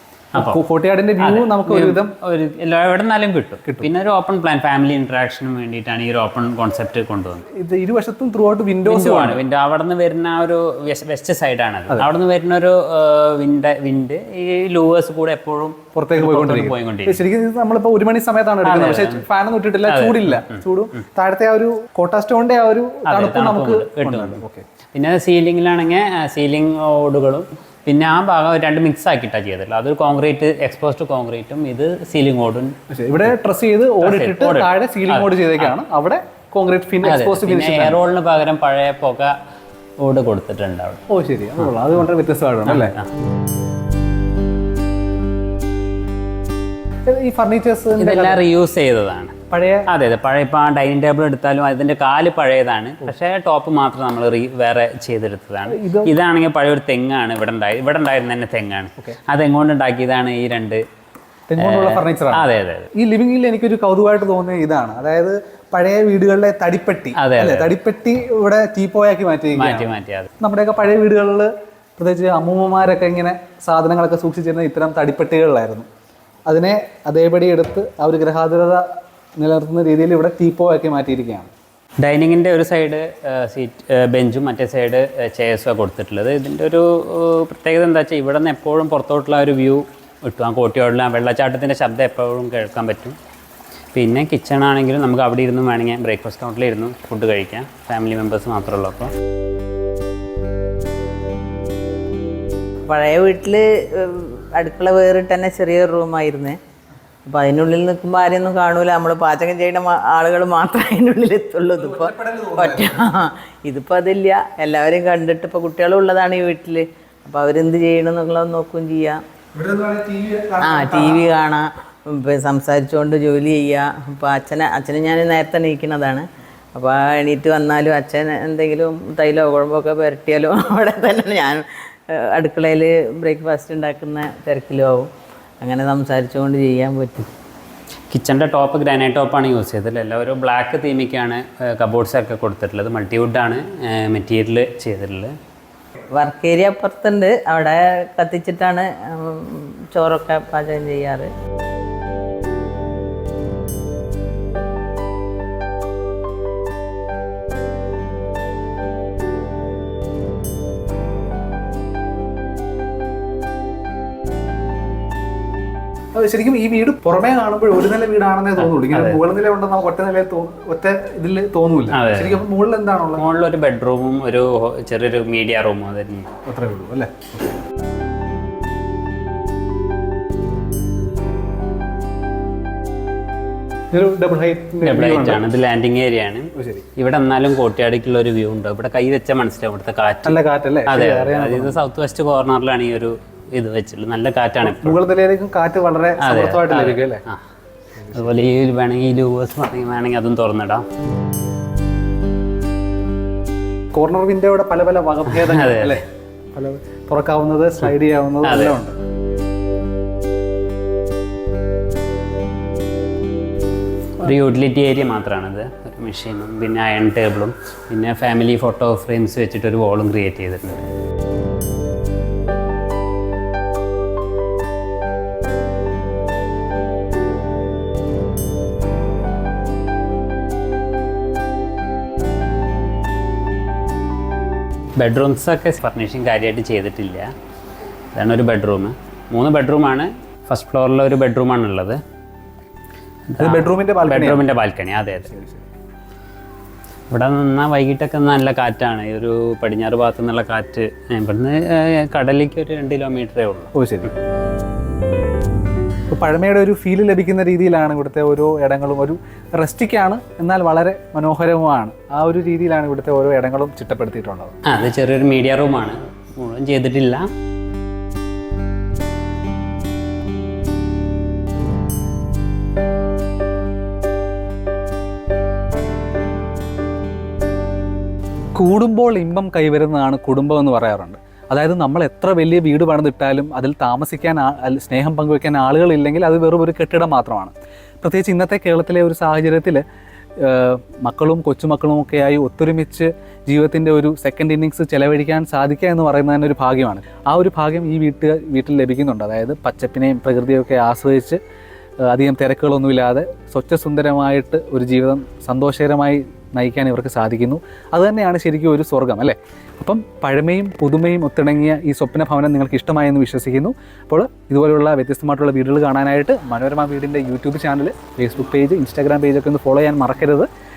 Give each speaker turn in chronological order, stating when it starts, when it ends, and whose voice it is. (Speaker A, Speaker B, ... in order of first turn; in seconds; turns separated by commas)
Speaker A: 0.3-0.6, Speaker B: 0.4-2.1, Speaker A: 1.2-7.5, Speaker B: 7.5-9.4, Speaker A: 8.9-17.2, Speaker B: 15.9-24.6, Speaker A: 18.6-19.2, Speaker A: 19.9-20.6, Speaker A: 23.1-24.4, Speaker A: 24.9-32.8, Speaker B: 32.9-38.0, Speaker A: 34.0-35.8, Speaker A: 37.0-39.3, Speaker A: 40.0-41.0, Speaker B: 41.1-42.9, Speaker A: 42.7-43.1, Speaker B: 47.1-48.4, Speaker A: 48.0-49.4, Speaker B: 49.5-49.9, Speaker A: 49.9-60.8, Speaker B: 55.7-56.1, Speaker B: 61.5-62.4, Speaker A: 61.6-62.9, Speaker B: 63.0-69.9, Speaker A: 67.2-67.7, Speaker A: 69.5-70.3, Speaker B: 70.4-75.9, Speaker B: 76.5-81.5, Speaker A: 82.0-93.2, Speaker A: 93.9-99.1, Speaker C: 102.9-106.6, Speaker C: 107.2-119.2, Speaker B: 111.8-113.0, Speaker B: 119.5-121.3, Speaker C: 120.6-135.1, Speaker C: 135.6-137.3, Speaker A: 138.1-145.3, Speaker C: 146.1-151.3, Speaker B: 166.1-173.2, Speaker A: 168.6-169.2, Speaker A: 171.9-172.4, Speaker A: 173.2-176.3, Speaker B: 176.5-177.3, Speaker B: 183.9-185.4, Speaker A: 184.8-195.0, Speaker B: 186.6-186.8, Speaker B: 190.2-191.8, Speaker B: 194.6-197.2, Speaker A: 196.2-197.4, Speaker A: 198.1-200.8, Speaker B: 203.9-206.0, Speaker A: 205.3-206.0, Speaker B: 206.5-209.0, Speaker A: 208.4-208.8, Speaker A: 214.2-220.8, Speaker A: 235.0-237.3, Speaker A: 238.1-242.0, Speaker A: 243.3-245.3, Speaker B: 243.4-244.4, Speaker B: 245.3-245.7, Speaker A: 247.1-253.7, Speaker B: 253.8-254.1, Speaker B: 256.1-264.6, Speaker A: 264.7-267.3, Speaker B: 278.6-289.8, Speaker B: 290.4-301.4, Speaker B: 302.1-320.5